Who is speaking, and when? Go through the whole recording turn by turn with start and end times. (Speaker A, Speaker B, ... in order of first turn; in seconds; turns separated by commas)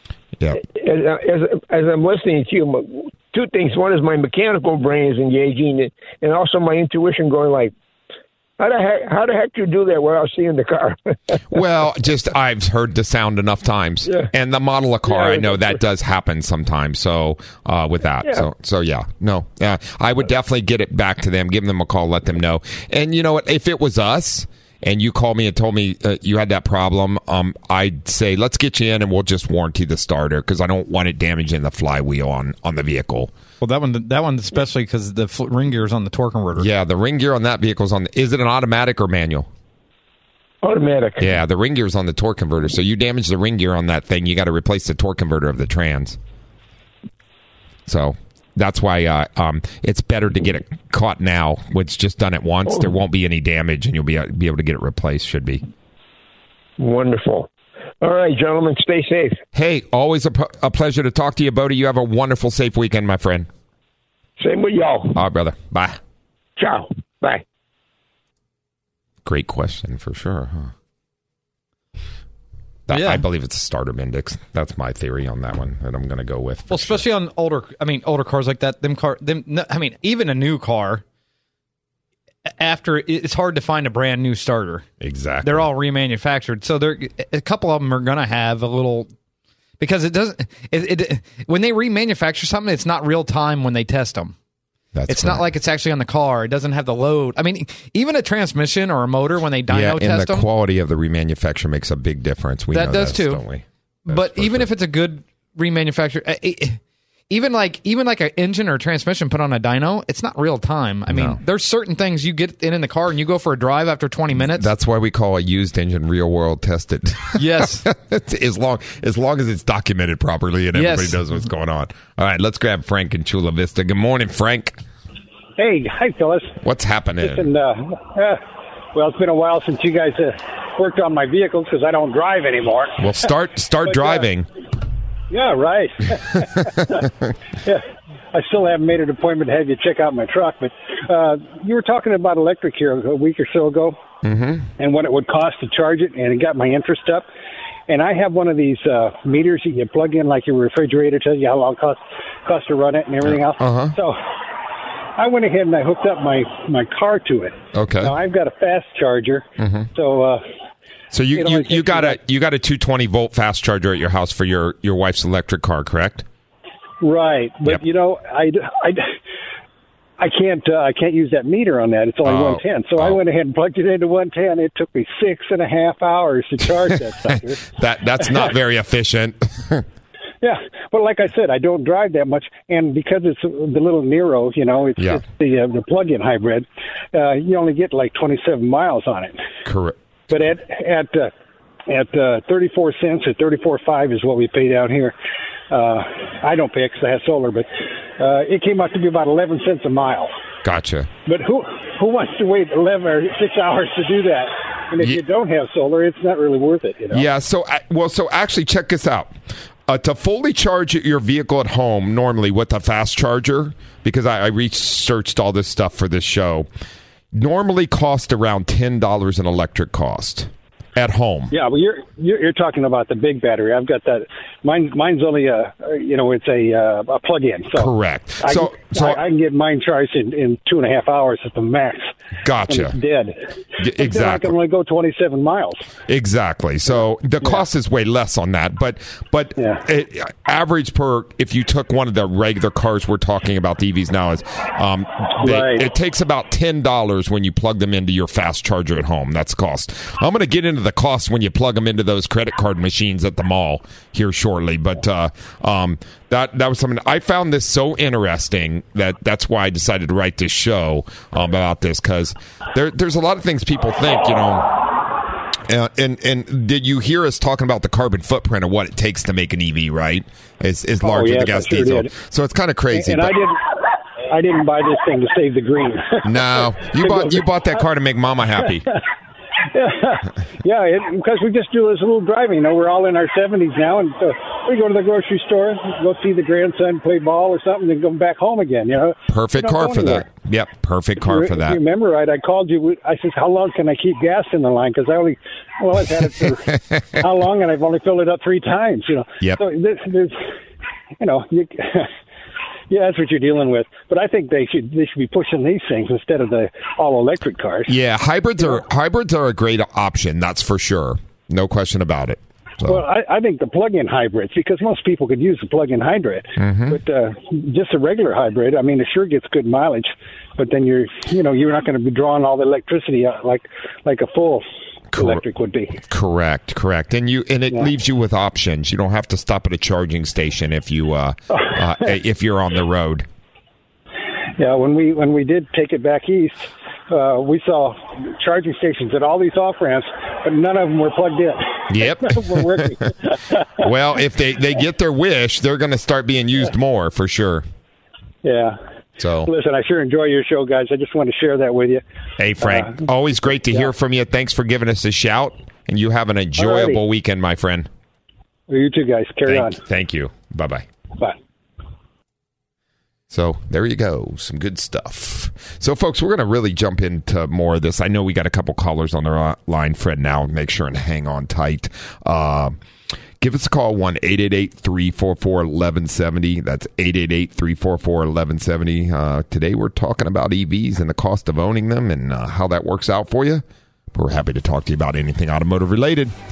Speaker A: 0.4-0.6, Speaker B: 0.6-7.7, Speaker B: 8.6-11.4, Speaker A: 11.5-33.3, Speaker B: 15.1-15.7, Speaker C: 33.6-36.6, Speaker A: 36.5-39.5, Speaker B: 40.6-41.3, Speaker A: 41.2-46.2, Speaker A: 47.9-55.6, Speaker B: 56.8-57.5, Speaker B: 58.0-59.4, Speaker A: 59.5-63.5, Speaker B: 64.4-65.2, Speaker A: 65.1-66.0, Speaker B: 66.6-67.4, Speaker A: 69.2-70.7, Speaker A: 72.9-77.0, Speaker C: 72.9-73.2, Speaker C: 76.7-81.0, Speaker C: 82.6-84.8, Speaker A: 85.0-85.7, Speaker C: 85.4-89.1, Speaker C: 89.8-94.3, Speaker A: 94.9-95.5, Speaker C: 95.1-100.5, Speaker A: 99.7-104.7, Speaker C: 102.7-103.4, Speaker C: 104.0-106.8, Speaker C: 107.3-114.7, Speaker A: 111.1-111.4, Speaker A: 114.3-124.8, Speaker C: 117.3-117.9, Speaker C: 120.7-121.2, Speaker D: 125.6-126.6, Speaker A: 126.6-127.5, Speaker D: 127.2-128.4, Speaker D: 128.9-133.2, Speaker A: 133.0-134.5, Speaker D: 133.8-134.3, Speaker D: 135.3-137.1, Speaker A: 136.4-137.1, Speaker D: 137.6-144.0, Speaker A: 144.2-144.7, Speaker D: 144.8-147.2, Speaker D: 147.9-154.2, Speaker A: 153.3-154.0, Speaker D: 155.2-160.4, Speaker A: 157.7-158.1, Speaker A: 159.6-159.9, Speaker A: 161.1-166.2, Speaker D: 161.3-162.2, Speaker D: 167.0-169.1, Speaker D: 170.2-178.5, Speaker A: 172.2-173.2, Speaker A: 177.7-179.8, Speaker D: 180.4-189.4, Speaker A: 185.0-185.2, Speaker A: 189.6-190.0, Speaker D: 190.3-191.3, Speaker D: 191.9-195.1, Speaker D: 195.7-200.3, Speaker A: 200.6-201.1, Speaker D: 201.2-207.3, Speaker A: 207.1-209.3, Speaker A: 209.9-216.7, Speaker A: 217.3-221.5, Speaker D: 221.5-227.9, Speaker A: 227.7-229.2, Speaker D: 228.4-232.1, Speaker A: 232.4-232.9, Speaker D: 232.7-233.4, Speaker A: 233.8-234.5, Speaker D: 233.9-235.9, Speaker A: 236.1-264.8, Speaker D: 239.6-239.8, Speaker D: 245.4-245.9, Speaker A: 265.7-273.4, Speaker D: 271.0-272.1, Speaker D: 272.9-273.6, Speaker D: 274.3-277.4, Speaker A: 276.2-278.9, Speaker D: 278.6-279.0, Speaker D: 279.7-290.2, Speaker A: 289.3-291.8, Speaker D: 291.2-300.4, Speaker D: 301.2-302.1, Speaker D: 302.9-307.9, Speaker A: 307.9-313.0, Speaker D: 312.8-324.6, Speaker A: 316.6-317.0, Speaker A: 325.1-325.4, Speaker D: 325.2-326.0, Speaker A: 326.0-333.3, Speaker D: 334.6-343.9, Speaker A: 341.9-343.0, Speaker A: 343.8-347.6, Speaker D: 348.4-348.8, Speaker A: 349.2-349.5, Speaker D: 349.4-352.0, Speaker A: 352.4-357.9, Speaker D: 352.6-353.9, Speaker D: 356.6-357.0, Speaker D: 358.7-359.8, Speaker A: 359.4-360.9, Speaker A: 363.3-372.8, Speaker A: 373.4-386.3